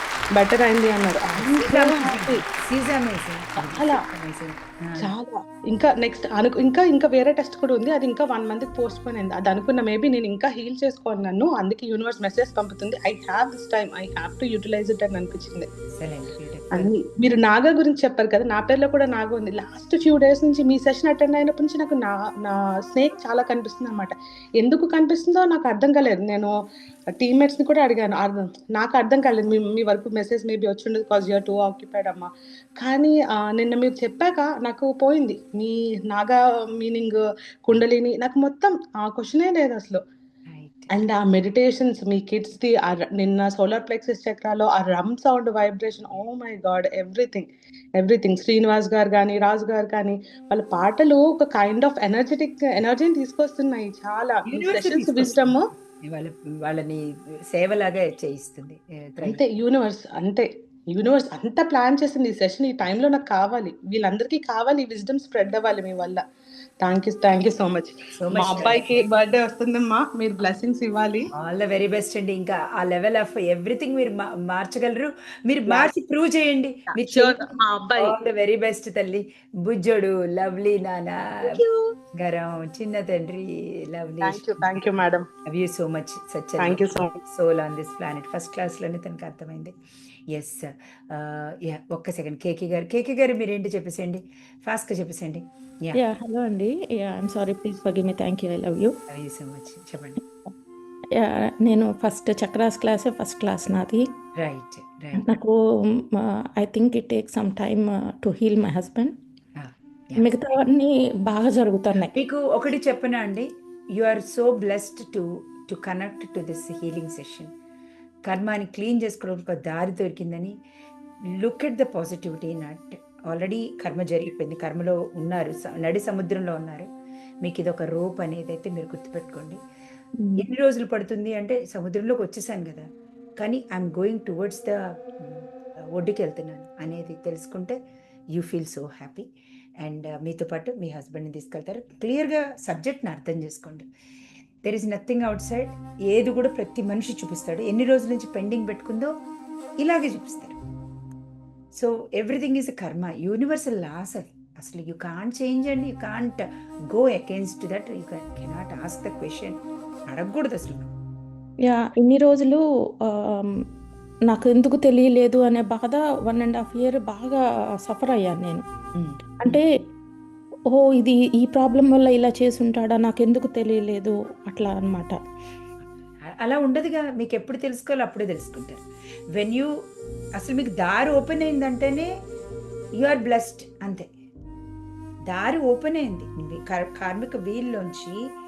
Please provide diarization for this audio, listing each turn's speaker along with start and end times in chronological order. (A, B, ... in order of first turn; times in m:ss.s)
0:00.4-0:02.4 A
0:01.3-0:05.1 B
0:03.6-0:04.0 A
0:05.0-0:15.7 A
0:15.9-0:16.9 B
0:16.7-0:26.5 A
0:27.2-0:40.0 A
0:40.5-0:40.9 B
0:40.9-0:55.7 A
0:54.5-0:59.4 B
0:59.2-1:06.2 A
1:06.8-1:11.3 A
1:08.2-1:09.0 B
1:11.4-1:17.4 B
1:15.7-1:15.9 A
1:16.9-1:18.2 A
1:18.0-1:21.5 B
1:21.4-1:21.8 A
1:22.2-1:24.8 B
1:24.2-1:25.3 A
1:25.5-1:29.7 B
1:26.6-1:27.2 A
1:30.3-1:36.0 B
1:35.9-1:38.9 C
1:39.1-1:40.2 B
1:41.2-1:44.0 C
1:44.4-1:45.2 B
1:45.2-1:45.5 C
1:46.6-1:49.1 C
1:49.6-1:50.3 B
1:50.2-1:52.1 C
1:52.0-1:57.5 B
1:58.2-2:00.6 B
2:01.4-2:06.9 B
2:07.4-2:09.6 B
2:10.2-2:10.4 C
2:10.4-2:12.8 B
2:13.4-2:17.8 B
2:18.4-2:19.2 B
2:19.8-2:23.8 B
2:24.6-2:29.1 B
2:29.8-2:30.6 B
2:31.7-2:40.9 B
2:41.6-2:42.6 C
2:44.3-2:48.6 C
2:49.0-2:49.6 B
2:50.7-2:55.2 C
2:56.4-2:58.8 B
2:59.4-2:59.7 B
3:00.4-3:02.1 B
3:03.0-3:04.1 B
3:05.3-3:08.2 B